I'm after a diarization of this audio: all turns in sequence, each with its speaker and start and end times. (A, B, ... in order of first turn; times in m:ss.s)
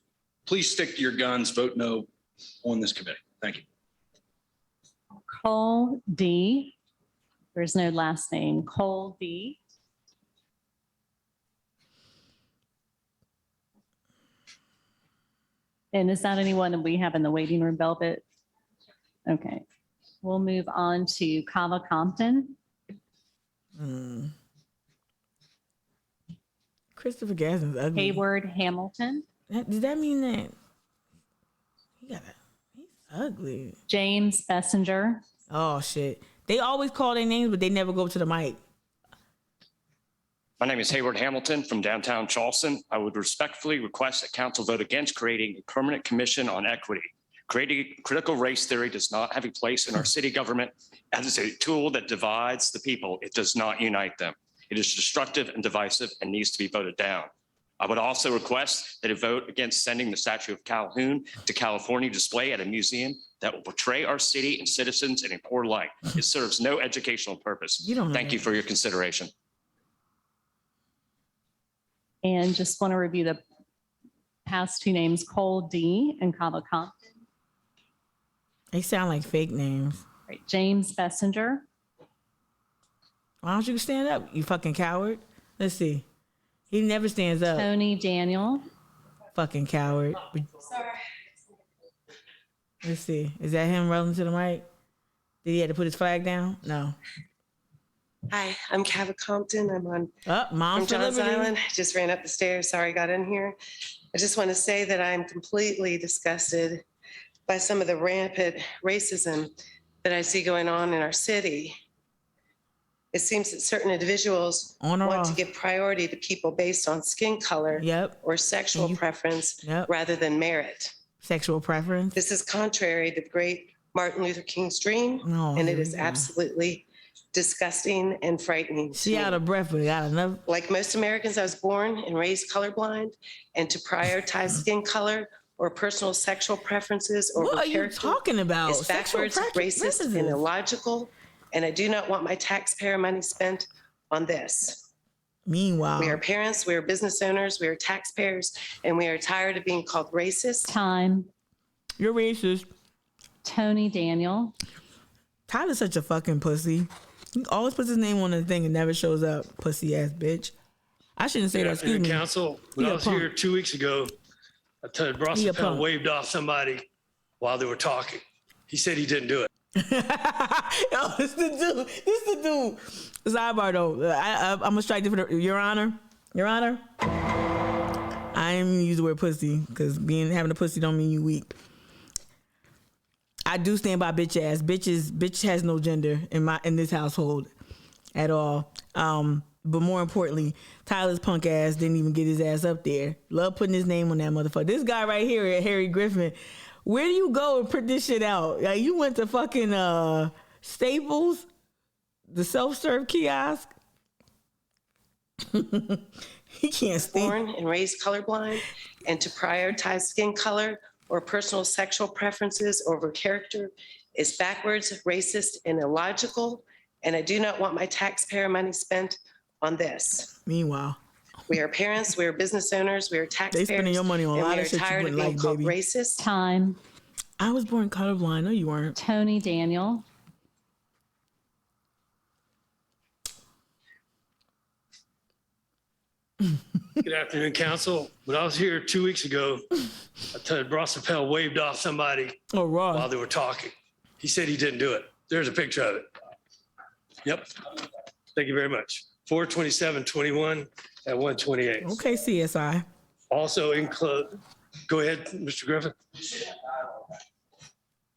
0:00.5-0:02.1 A
0:02.6-0:03.6 A
0:05.3-0:06.8 B
0:07.5-0:09.6 B
0:15.9-0:18.2 B
0:19.2-0:19.6 B
0:20.2-0:22.6 B
0:23.8-0:24.3 C
0:27.0-0:28.2 C
0:28.0-0:29.2 B
0:29.5-0:30.6 C
0:32.0-0:33.8 C
0:33.9-0:35.2 B
0:35.5-0:38.6 C
0:40.6-1:09.3 D
1:07.8-1:08.6 C
1:12.2-1:13.4 B
1:14.5-1:17.1 B
1:18.7-1:20.0 C
1:20.3-1:21.6 B
1:23.4-1:26.0 C
1:26.7-1:27.7 C
1:27.5-1:28.7 B
1:29.4-1:30.6 C
1:30.7-1:31.0 E
1:32.8-1:34.7 C
1:35.4-1:37.0 C
1:38.3-1:40.1 E
1:40.3-1:41.5 C
1:40.8-1:43.6 E
1:44.1-1:46.8 E
1:47.5-1:49.5 E
1:50.0-1:51.8 E
1:53.1-2:00.9 E
1:54.8-1:55.4 C
1:57.7-1:58.2 C
1:58.7-1:59.0 C
1:59.6-1:59.9 C
2:01.2-2:02.2 C
2:02.2-2:09.4 E
2:05.2-2:06.3 C
2:09.0-2:10.4 C
2:10.5-2:24.9 E
2:17.4-2:20.4 C
2:25.5-2:26.2 C
2:26.0-2:30.7 E
2:30.7-2:31.3 B
2:32.0-2:32.7 C
2:33.4-2:34.6 B
2:35.5-2:40.5 C
2:41.2-2:42.2 C
2:41.6-2:44.1 F
2:42.8-2:43.3 C
2:44.8-2:46.8 F
2:45.3-2:45.9 C
2:47.4-2:49.5 F
2:49.8-2:56.8 C
2:58.3-3:01.6 C
3:03.5-3:07.5 C
3:08.1-3:21.5 C
3:22.3-3:23.8 C
3:25.5-3:27.4 C
3:27.1-3:40.3 E
3:40.4-3:41.0 C
3:41.5-3:46.2 E
3:43.5-3:45.8 C
3:46.2-3:46.8 B
3:47.4-3:49.0 C
3:49.0-3:50.0 B
3:57.0-3:59.6 F
4:00.3-4:02.4 F
4:02.5-4:03.1 C
4:02.9-4:06.1 F
4:07.2-4:07.5 F
4:08.4-4:12.0 F
4:11.8-4:12.8 C
4:13.3-4:16.0 F